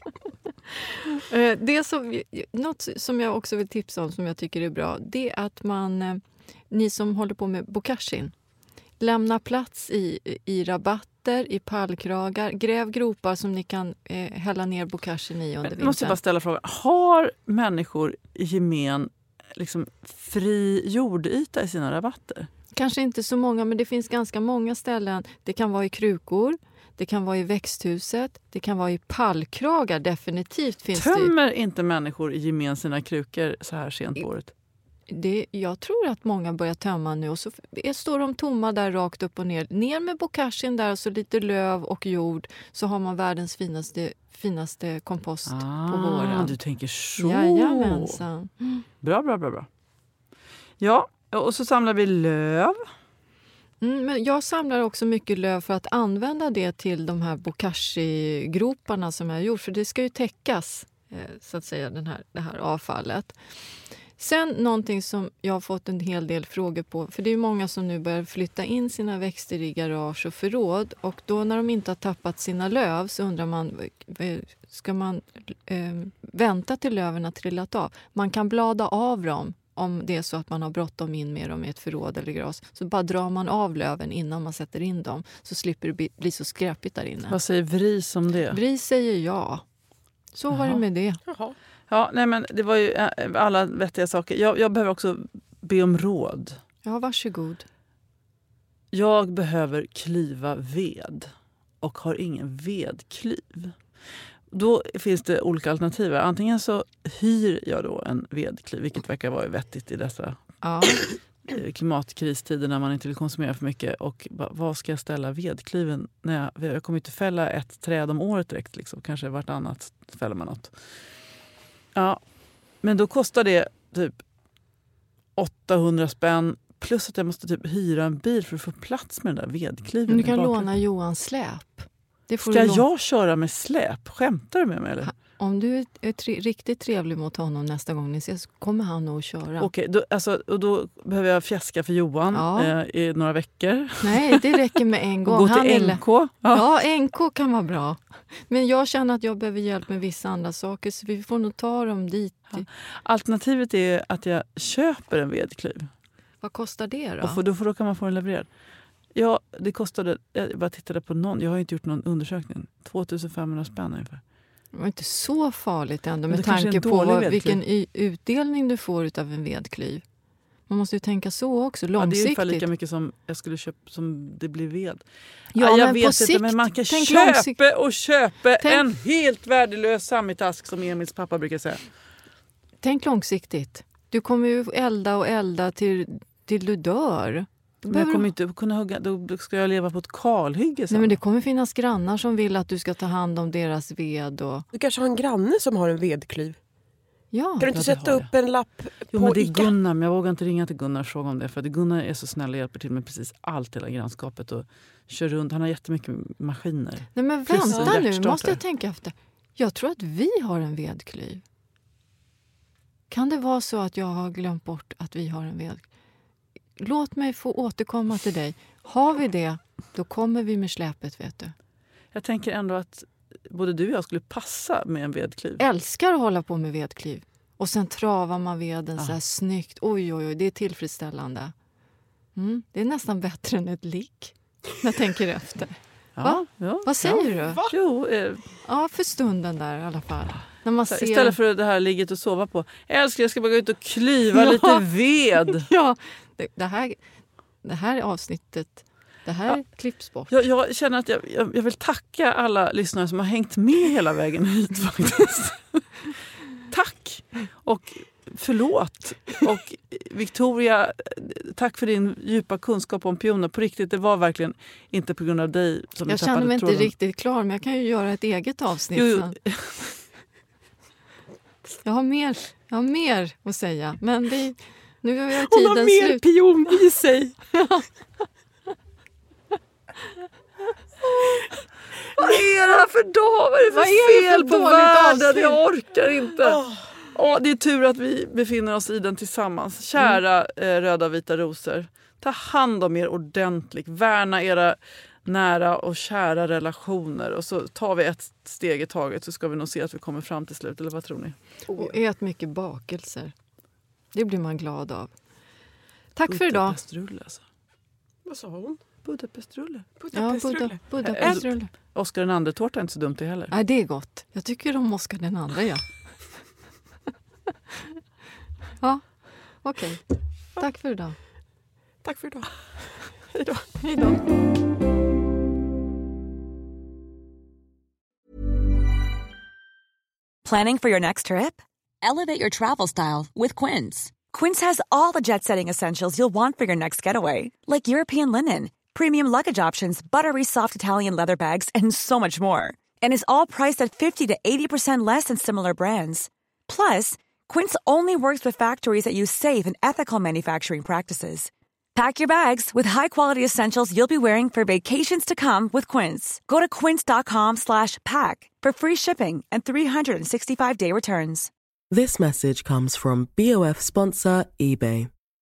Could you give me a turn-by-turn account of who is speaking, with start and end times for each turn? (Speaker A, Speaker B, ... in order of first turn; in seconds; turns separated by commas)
Speaker A: 1.1-8.3, Speaker A: 9.0-16.2, Speaker B: 15.6-22.5, Speaker A: 22.7-31.3, Speaker B: 30.9-34.5, Speaker A: 35.1-46.6, Speaker B: 45.5-48.2, Speaker A: 47.2-48.9, Speaker B: 49.0-49.7, Speaker B: 50.8-52.9, Speaker A: 53.8-63.4, Speaker A: 64.2-87.4, Speaker B: 87.3-88.6, Speaker A: 88.5-89.6, Speaker A: 90.3-91.2, Speaker B: 90.5-90.8, Speaker C: 91.2-91.5, Speaker B: 91.9-96.6, Speaker A: 96.8-97.7, Speaker B: 98.9-101.3, Speaker B: 101.8-103.8, Speaker B: 104.5-110.4, Speaker A: 110.6-111.0, Speaker B: 111.5-120.7, Speaker B: 121.9-122.2, Speaker B: 122.8-124.2, Speaker B: 125.3-130.7, Speaker A: 130.1-132.8, Speaker B: 132.4-135.1, Speaker A: 135.1-139.7, Speaker B: 139.6-144.7, Speaker A: 142.3-142.7, Speaker A: 144.0-152.7, Speaker B: 145.2-146.6, Speaker B: 152.5-155.9, Speaker A: 156.4-157.4, Speaker B: 157.2-158.5, Speaker B: 159.1-164.2, Speaker A: 164.7-170.0, Speaker B: 166.3-167.6, Speaker A: 170.7-172.7, Speaker B: 172.0-181.8, Speaker A: 175.5-177.6, Speaker A: 182.8-188.3, Speaker B: 187.9-191.2, Speaker A: 190.9-194.7, Speaker C: 194.7-196.6, Speaker A: 197.3-197.7, Speaker C: 197.6-199.7, Speaker B: 197.7-198.3, Speaker B: 199.0-208.6, Speaker A: 207.1-211.4, Speaker C: 207.6-208.0, Speaker A: 213.1-215.8, Speaker A: 216.8-221.5, Speaker B: 222.1-225.6, Speaker A: 225.6-231.5, Speaker A: 232.3-237.6, Speaker B: 236.2-238.5, Speaker C: 237.4-237.7, Speaker A: 238.6-241.4, Speaker B: 240.9-245.7, Speaker A: 244.3-244.8, Speaker A: 245.5-247.0, Speaker A: 247.6-250.4, Speaker B: 250.3-255.8, Speaker B: 256.7-266.9, Speaker A: 266.1-269.4, Speaker B: 268.9-269.9, Speaker A: 271.8-276.2, Speaker C: 275.3-277.4, Speaker A: 277.5-277.9, Speaker B: 282.2-301.4, Speaker A: 283.6-285.6, Speaker C: 286.6-286.9, Speaker C: 301.7-301.9, Speaker A: 301.7-303.3, Speaker A: 304.1-305.1, Speaker A: 306.1-306.8, Speaker B: 306.3-307.4, Speaker C: 308.2-308.8, Speaker B: 309.0-309.9, Speaker C: 310.0-311.4, Speaker A: 310.1-311.7, Speaker B: 311.0-313.5, Speaker A: 313.5-316.1, Speaker A: 318.8-320.0, Speaker A: 320.6-321.1, Speaker C: 322.0-323.7, Speaker A: 323.8-324.2, Speaker D: 330.4-361.5, Speaker E: 361.9-365.1